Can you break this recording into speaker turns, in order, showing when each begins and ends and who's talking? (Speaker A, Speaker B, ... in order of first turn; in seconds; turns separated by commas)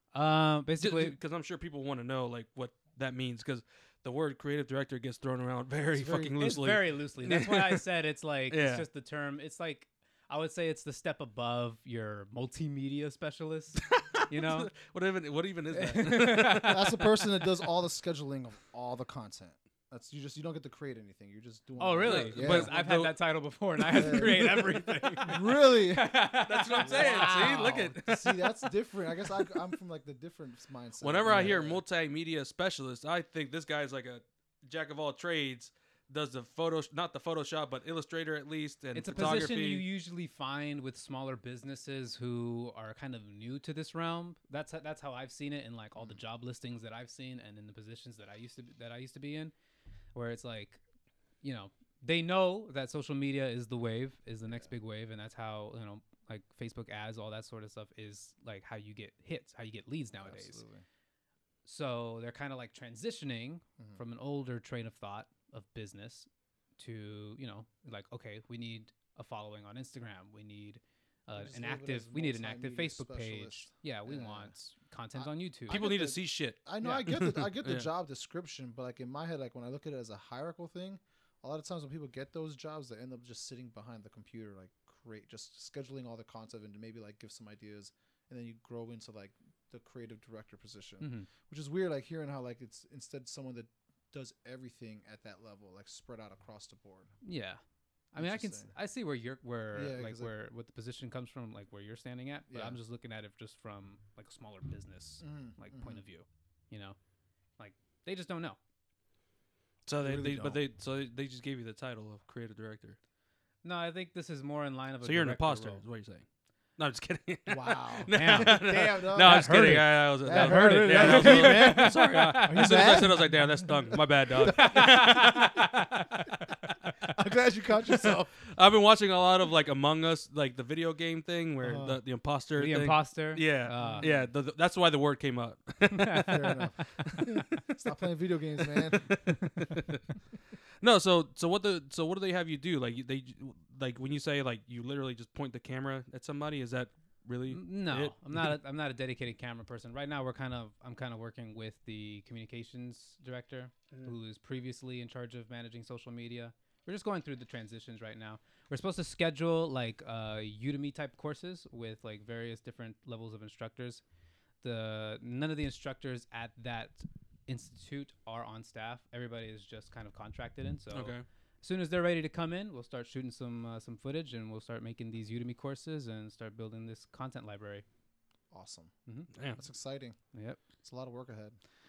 Speaker A: 0.1-1.1, Speaker B: 0.8-7.8, Speaker C: 5.9-6.5, Speaker A: 6.4-14.7, Speaker B: 8.5-8.8, Speaker B: 13.8-16.8, Speaker C: 15.8-22.7, Speaker A: 15.9-17.0, Speaker A: 21.8-27.8, Speaker B: 22.0-23.1, Speaker C: 23.9-26.3, Speaker B: 24.1-25.1, Speaker B: 26.4-28.2, Speaker C: 26.8-31.8, Speaker B: 31.0-39.8, Speaker A: 38.9-49.5, Speaker A: 50.1-50.8, Speaker A: 51.4-60.6, Speaker C: 60.2-60.8, Speaker A: 61.6-75.8, Speaker C: 71.4-74.5, Speaker C: 75.1-97.1, Speaker B: 75.7-77.9, Speaker A: 76.8-77.1, Speaker A: 91.0-91.3, Speaker A: 97.2-97.6, Speaker A: 98.1-107.0, Speaker C: 98.1-98.7, Speaker C: 99.7-100.3, Speaker C: 102.5-102.8, Speaker C: 105.2-106.0, Speaker A: 107.6-108.6, Speaker B: 109.8-113.0, Speaker C: 110.0-110.6, Speaker A: 113.6-115.8, Speaker B: 115.0-116.2, Speaker B: 116.8-125.7, Speaker C: 117.5-125.4, Speaker A: 118.1-123.0, Speaker A: 124.5-126.7, Speaker C: 127.1-128.3, Speaker B: 128.5-136.7, Speaker C: 131.6-132.0, Speaker A: 132.6-134.1, Speaker C: 133.8-134.3, Speaker A: 135.9-136.3, Speaker C: 136.2-139.1, Speaker B: 137.2-137.6, Speaker B: 138.8-140.0, Speaker A: 139.4-139.8, Speaker B: 140.8-148.6, Speaker A: 147.5-164.0, Speaker A: 164.6-177.8, Speaker B: 170.9-171.2, Speaker C: 178.5-178.9, Speaker B: 179.3-179.6, Speaker C: 179.5-180.2, Speaker A: 180.3-180.6, Speaker C: 180.8-181.6